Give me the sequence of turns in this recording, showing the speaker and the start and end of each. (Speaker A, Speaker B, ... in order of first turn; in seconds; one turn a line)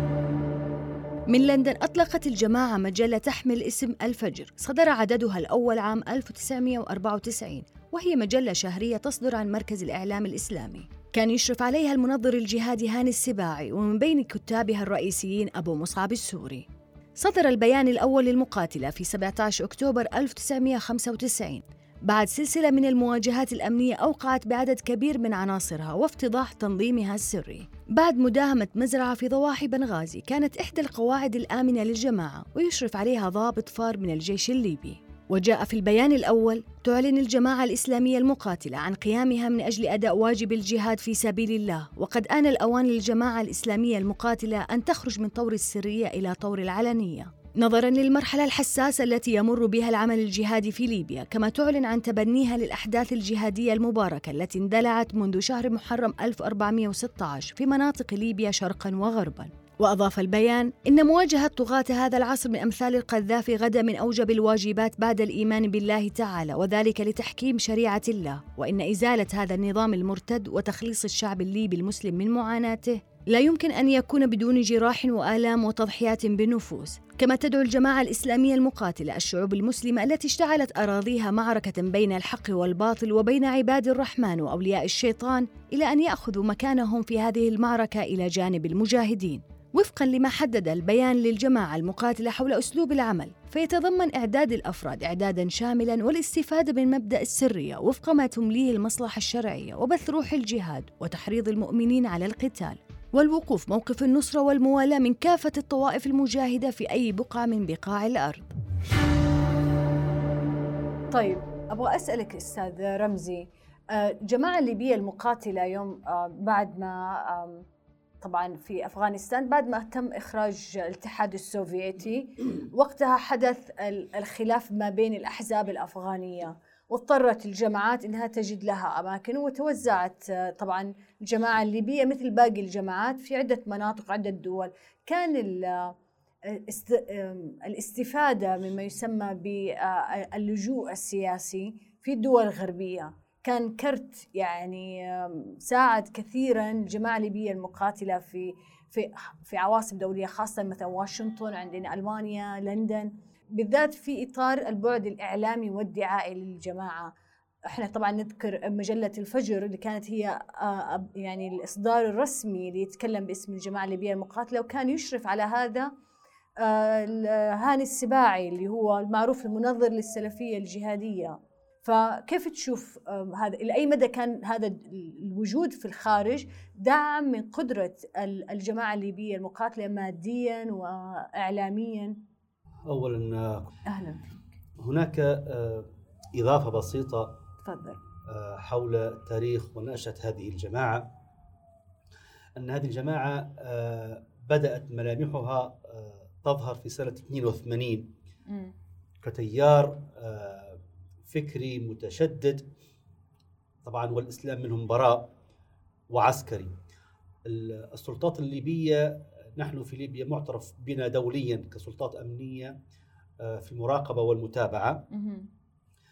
Speaker A: 1.3-108.5
Speaker B: 111.1-117.7
Speaker B: 118.2-135.9
Speaker B: 136.5-157.1
Speaker B: 157.7-165.9
Speaker B: 166.6-182.2
Speaker C: 182.9-183.7
Speaker B: 183.9-184.3
Speaker C: 184.8-187.3
Speaker B: 187.7-188.0
Speaker C: 188.3-191.1
Speaker C: 192.6-198.1
Speaker B: 198.5-198.7
Speaker C: 199.2-202.7
Speaker C: 203.8-205.3
Speaker C: 206.1-206.8
Speaker C: 207.5-212.8
Speaker C: 213.4-215.0
Speaker B: 215.1-215.5